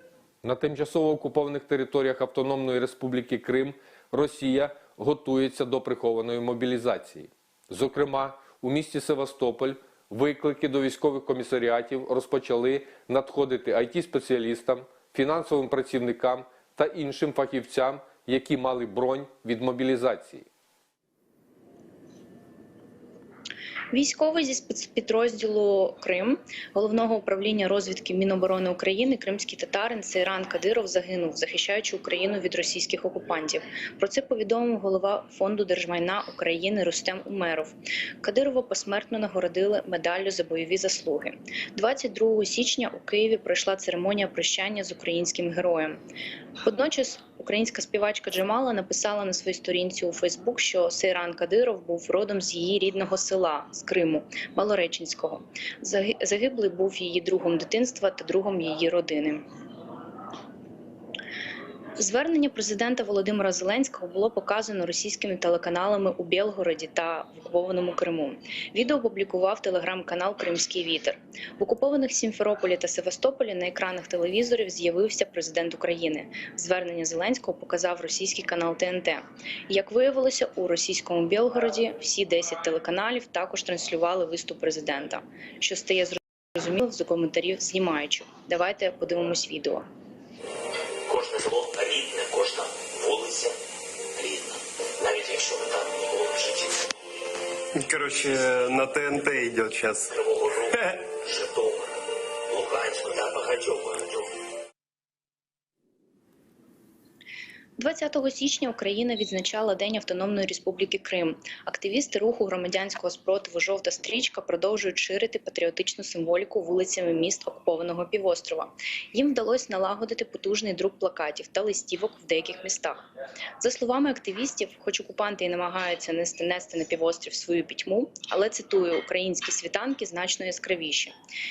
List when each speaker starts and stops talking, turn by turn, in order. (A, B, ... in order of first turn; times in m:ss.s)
0:00.4-0:20.5 A
0:23.9-0:46.0 B
0:46.6-0:59.4 B
1:02.0-1:29.8 B
1:31.1-1:33.5 C
1:34.2-1:36.8 C
1:37.8-1:40.0 D
1:40.2-1:41.8 C
1:42.5-1:44.1 C
1:47.8-2:03.0 B
2:03.6-2:11.1 B